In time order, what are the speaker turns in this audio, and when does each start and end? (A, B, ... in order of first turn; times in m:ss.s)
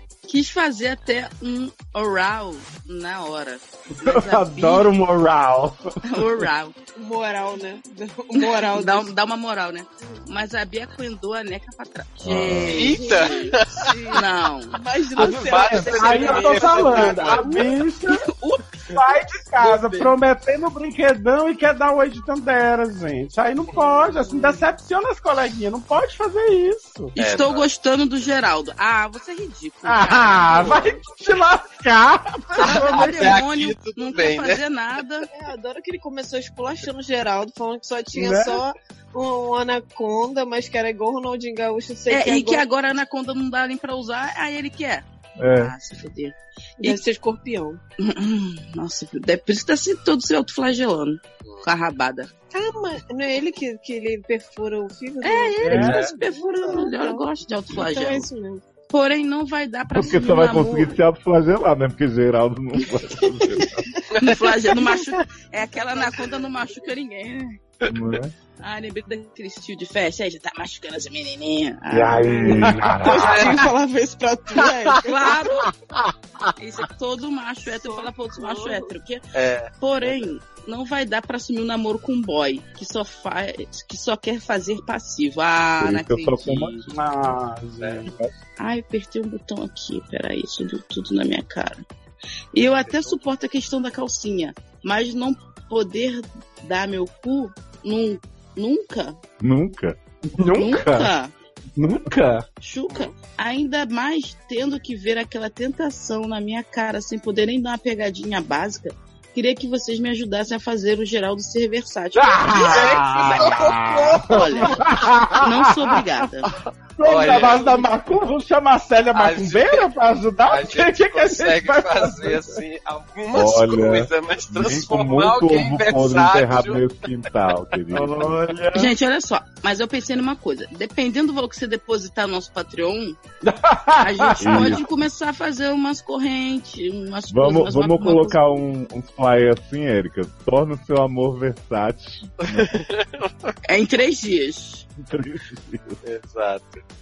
0:00.3-0:04.9 A
0:03.9-0:06.4 B
0:06.0-0:06.7 A
0:07.0-0:09.1 C
0:08.4-0:13.6 A
0:12.2-0:12.9 D
0:12.7-0:13.9 E
0:12.9-0:17.7 C
0:14.1-0:14.8 A
0:15.1-0:17.7 E
0:15.2-0:18.2 B
0:18.1-0:19.0 A
0:18.9-0:27.1 B
0:23.8-0:24.7 C
0:27.2-0:30.9 A
0:27.2-0:27.6 E
0:29.8-0:33.4 B
0:32.6-0:35.3 A
0:32.6-0:34.6 E
0:35.3-0:42.6 C
0:38.1-0:38.6 B
0:42.1-0:45.0 A
0:45.4-0:45.7 D
0:45.6-0:47.0 A
0:46.8-0:47.8 C
0:48.0-0:52.3 A
0:52.5-0:58.6 C
0:55.2-0:58.3 A
0:55.6-0:56.2 B
0:58.9-1:00.9 A
0:59.9-1:03.9 D
1:04.1-1:07.6 A
1:07.9-1:08.3 D
1:08.6-1:12.7 A
1:11.9-1:13.4 D
1:12.4-1:13.3 B
1:13.0-1:15.4 C
1:13.2-1:13.7 E
1:15.0-1:15.7 A
1:16.6-1:19.2 A
1:17.7-1:18.9 C
1:19.3-1:20.1 E
1:19.8-1:26.9 A
1:25.8-1:27.4 D
1:26.9-1:28.1 B
1:28.0-1:28.3 D
1:28.6-1:31.8 A
1:32.5-1:39.2 A
1:32.9-1:33.2 E
1:39.4-1:40.0 D
1:40.3-1:41.1 B
1:40.5-1:41.3 A
1:41.8-1:42.4 B
1:42.6-1:53.5 A
1:52.1-1:56.0 B
1:52.7-1:54.4 E
1:54.3-1:54.8 A
1:55.4-1:56.5 A
1:56.5-2:02.6 B
1:57.0-1:57.9 E
1:59.1-1:59.9 E
2:00.4-2:06.8 E
2:03.3-2:08.4 D
2:07.9-2:08.9 B
2:08.7-2:13.2 A
2:13.4-2:14.8 B
2:14.0-2:18.4 A
2:14.4-2:14.8 D
2:17.3-2:22.8 D
2:22.4-2:23.5 E
2:23.6-2:24.9 A
2:25.0-2:26.0 D
2:26.0-2:26.8 E